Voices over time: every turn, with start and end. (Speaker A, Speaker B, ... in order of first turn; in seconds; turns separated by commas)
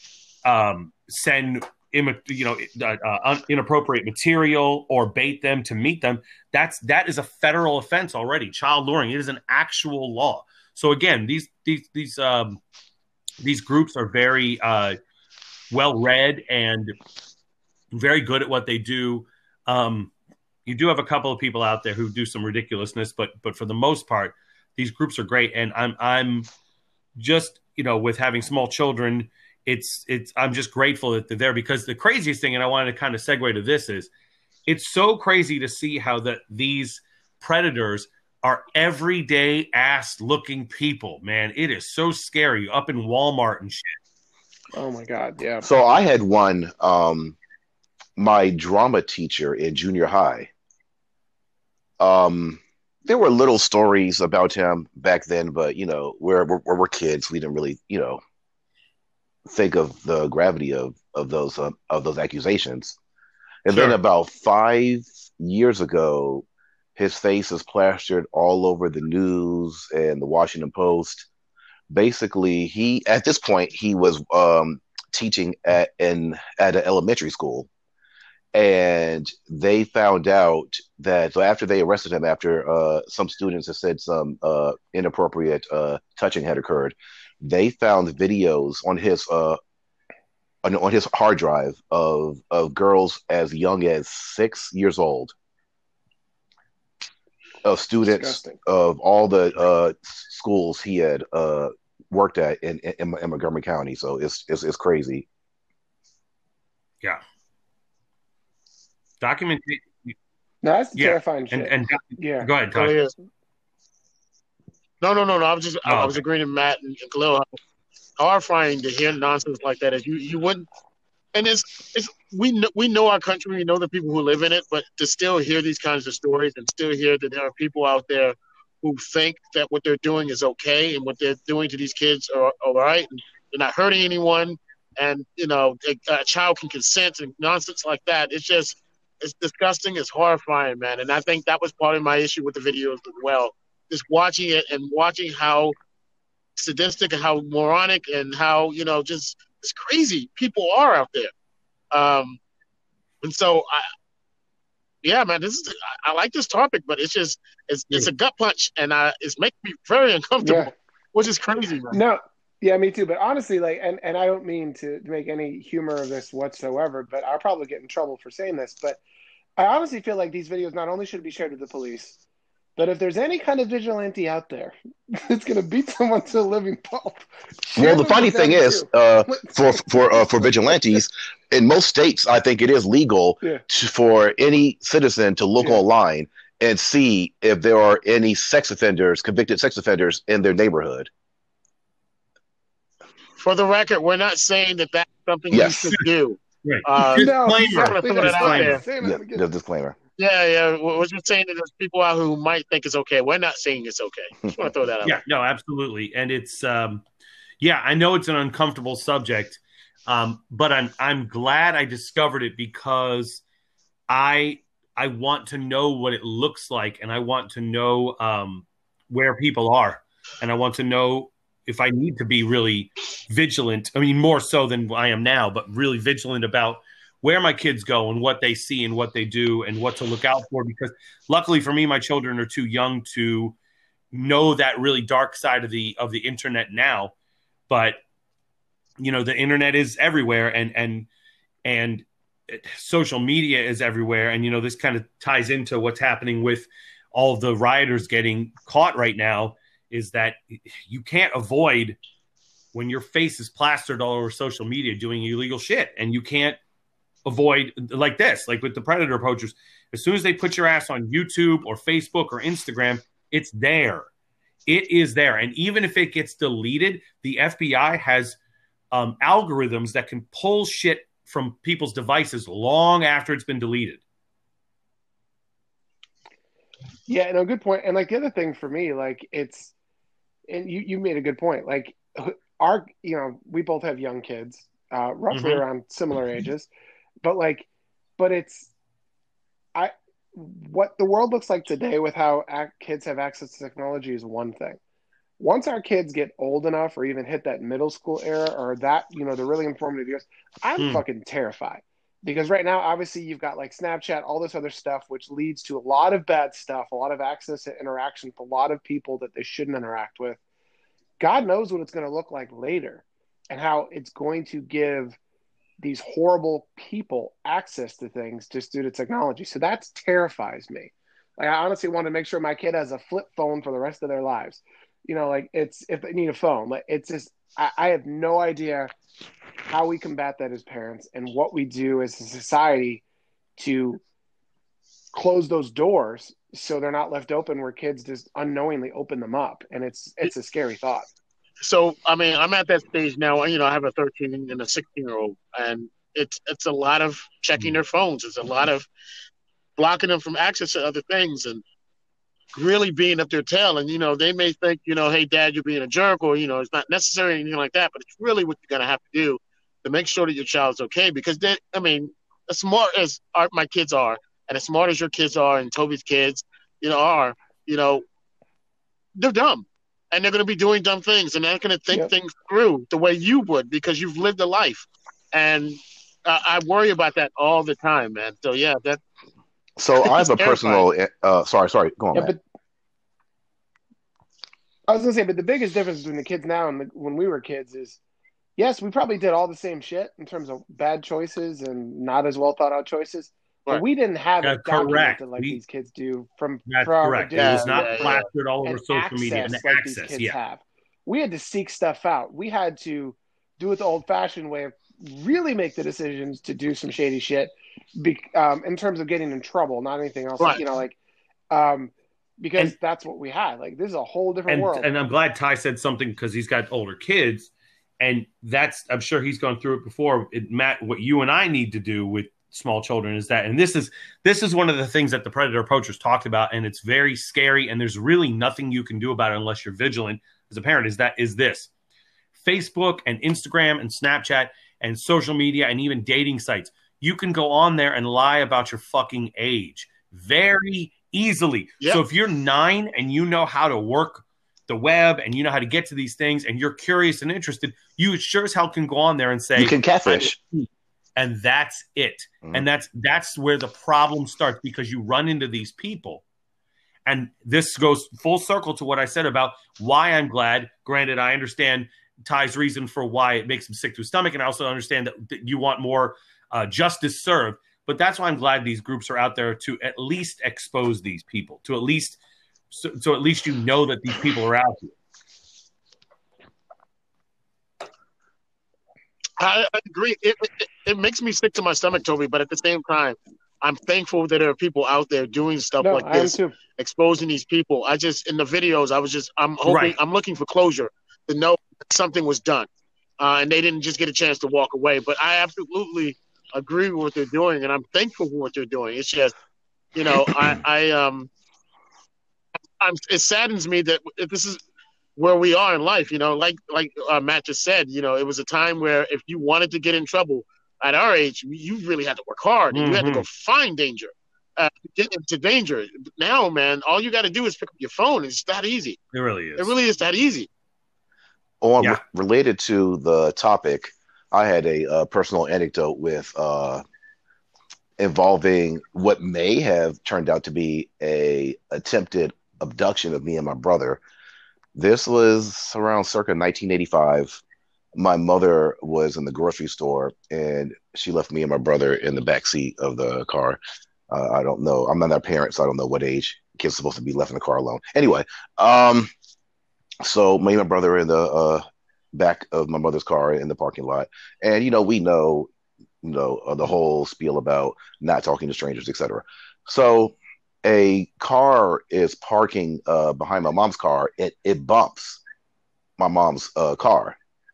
Speaker A: 0.4-12.6, Speaker A: 13.4-14.9, Speaker A: 15.7-16.9, Speaker A: 17.9-20.1, Speaker A: 20.6-26.5, Speaker A: 27.2-34.1, Speaker A: 34.7-43.9, Speaker B: 44.7-45.7, Speaker C: 45.6-47.3, Speaker C: 48.2-50.5, Speaker C: 52.0-58.2, Speaker C: 59.5-63.0, Speaker C: 63.6-71.3, Speaker A: 63.7-64.0, Speaker C: 71.9-77.7, Speaker C: 78.5-89.6, Speaker C: 90.6-95.3, Speaker C: 97.6-105.2, Speaker B: 98.0-98.6, Speaker A: 109.2-110.1, Speaker B: 110.6-112.5, Speaker A: 111.0-112.9, Speaker D: 112.7-113.1, Speaker D: 115.0-117.5, Speaker A: 115.8-116.2, Speaker D: 118.2-120.7, Speaker D: 121.3-145.7, Speaker D: 146.6-151.3, Speaker D: 151.9-152.4, Speaker D: 153.2-153.9, Speaker D: 155.0-162.0, Speaker B: 160.4-160.7, Speaker B: 161.9-169.0, Speaker B: 169.6-172.2, Speaker B: 172.8-181.0, Speaker C: 177.8-191.1, Speaker D: 193.4-198.8, Speaker C: 195.5-195.9, Speaker A: 196.6-198.8, Speaker B: 197.1-199.5, Speaker C: 199.0-199.9, Speaker D: 200.2-205.2, Speaker A: 205.0-207.0, Speaker A: 207.6-213.4, Speaker A: 214.1-233.6, Speaker A: 234.1-237.1, Speaker A: 237.7-238.0, Speaker A: 239.0-241.1, Speaker A: 241.6-252.0, Speaker A: 252.7-256.6, Speaker A: 257.2-264.1, Speaker A: 264.7-268.4, Speaker A: 268.9-274.0, Speaker B: 277.1-279.7, Speaker B: 280.5-286.7, Speaker A: 285.3-285.6, Speaker B: 287.2-288.7, Speaker B: 289.7-294.8, Speaker B: 295.4-310.4, Speaker A: 300.8-301.0, Speaker B: 311.2-315.2, Speaker B: 315.8-328.9, Speaker B: 329.7-333.0, Speaker B: 333.6-334.0, Speaker B: 335.1-341.1, Speaker D: 341.6-348.9, Speaker D: 349.8-351.6, Speaker D: 352.5-368.0, Speaker D: 369.1-379.0, Speaker C: 379.8-382.3, Speaker D: 380.0-380.8, Speaker B: 382.1-382.4, Speaker B: 384.9-388.0, Speaker B: 388.6-411.0, Speaker A: 394.4-395.6, Speaker A: 396.7-400.4, Speaker D: 397.4-398.2, Speaker B: 411.5-414.9, Speaker A: 414.5-431.7, Speaker A: 432.3-450.4, Speaker C: 449.6-450.4, Speaker A: 451.1-456.2, Speaker A: 457.1-472.2, Speaker A: 472.7-474.9, Speaker D: 479.4-499.3, Speaker B: 485.8-486.6, Speaker A: 489.6-489.9, Speaker D: 499.9-501.3, Speaker D: 502.8-504.6, Speaker D: 505.1-519.0, Speaker A: 512.7-513.2, Speaker A: 519.1-519.8, Speaker D: 519.6-520.5, Speaker C: 521.6-526.8, Speaker C: 528.0-534.0, Speaker C: 534.7-537.4, Speaker C: 538.0-543.6, Speaker C: 544.1-549.1, Speaker C: 550.0-555.5, Speaker C: 556.0-565.2, Speaker C: 566.0-567.2